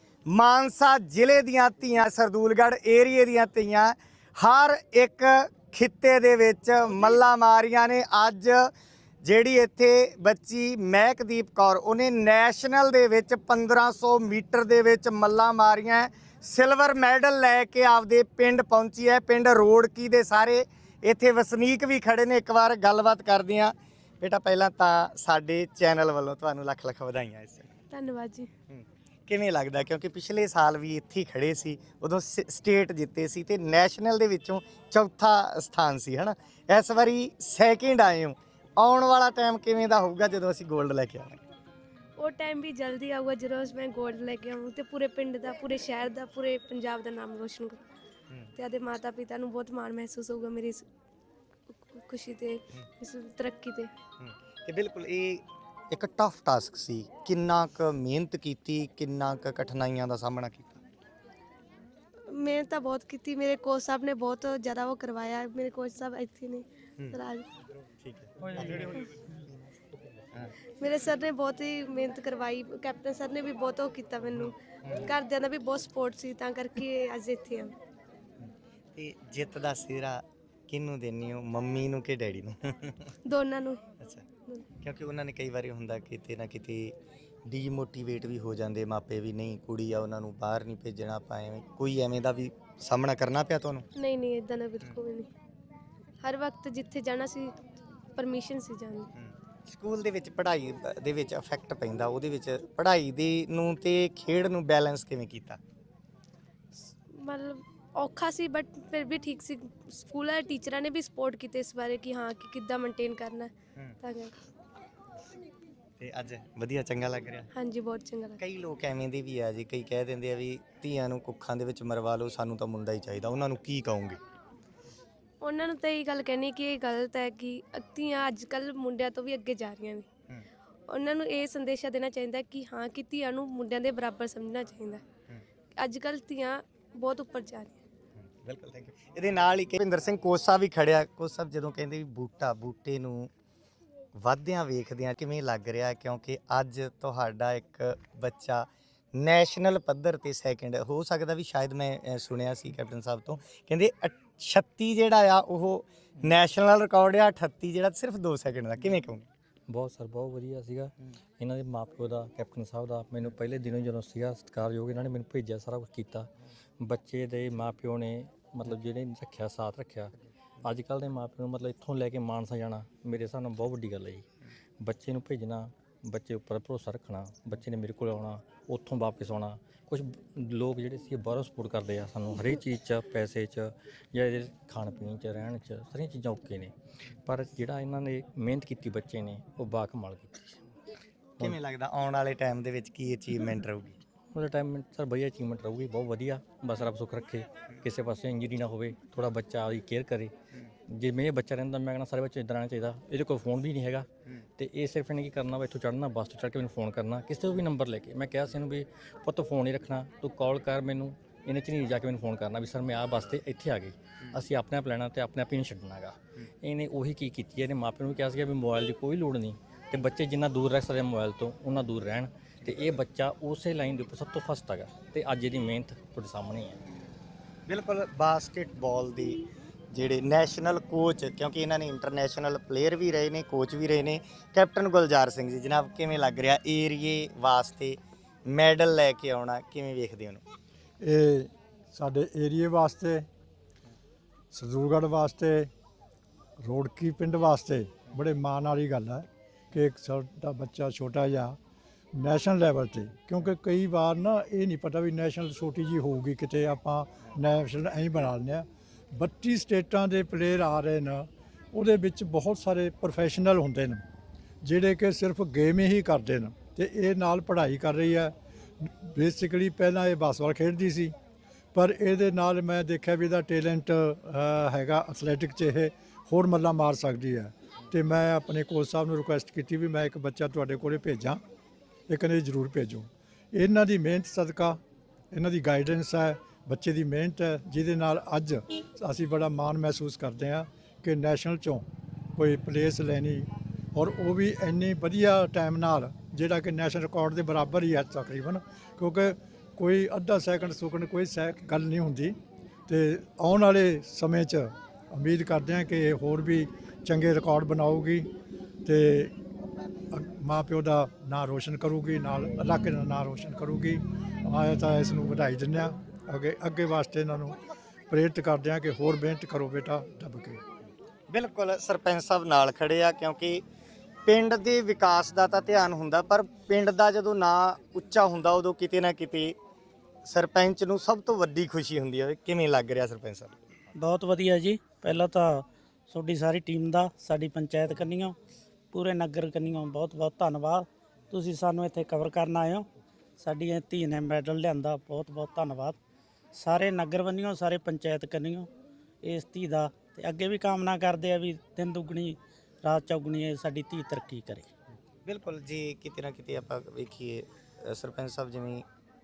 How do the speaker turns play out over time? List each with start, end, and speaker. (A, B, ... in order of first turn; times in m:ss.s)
0:00.3-0:08.7 A
0:09.2-0:27.7 A
0:27.9-0:28.5 B
0:28.7-0:41.4 A
0:42.2-0:47.8 B
0:48.6-0:50.8 B
0:51.7-0:53.9 B
0:54.2-1:00.8 A
1:02.3-1:07.5 B
1:08.0-1:09.0 A
1:10.8-1:17.7 B
1:18.4-1:23.1 A
1:23.2-1:23.8 B
1:24.8-1:33.9 A
1:34.0-1:35.3 B
1:36.2-1:37.5 B
1:38.2-1:39.1 B
1:39.2-1:45.6 A
1:46.9-1:54.3 B
1:56.0-1:57.5 A
1:57.5-1:58.4 B
1:58.4-2:04.2 A
2:05.4-2:10.1 B
2:10.9-2:15.0 B
2:15.8-2:17.8 B
2:18.3-2:23.3 A
2:24.2-2:39.3 A
2:39.7-2:46.3 C
2:46.8-2:54.2 C
2:54.8-3:06.7 C
3:07.2-3:10.6 C
3:11.4-3:14.0 A
3:14.3-3:20.3 C
3:21.0-3:46.8 C
3:47.7-4:00.4 A
4:01.0-4:03.3 D
4:04.5-4:05.7 D
4:06.6-4:11.6 D
4:12.1-4:24.0 D
4:24.6-4:31.1 D
4:31.7-4:41.4 D
4:42.1-4:44.8 D
4:45.3-4:51.8 D
4:52.4-5:02.4 D
5:02.9-5:08.3 D
5:08.8-5:09.4 D
5:10.1-5:17.6 D
5:18.1-5:20.6 D
5:21.3-5:23.6 A
5:24.3-5:29.6 A
5:30.2-5:33.6 A
5:34.0-5:38.4 E
5:38.9-5:42.9 E
5:43.4-5:46.0 E
5:46.6-5:48.7 E
5:49.2-5:54.7 E
5:55.3-5:58.9 A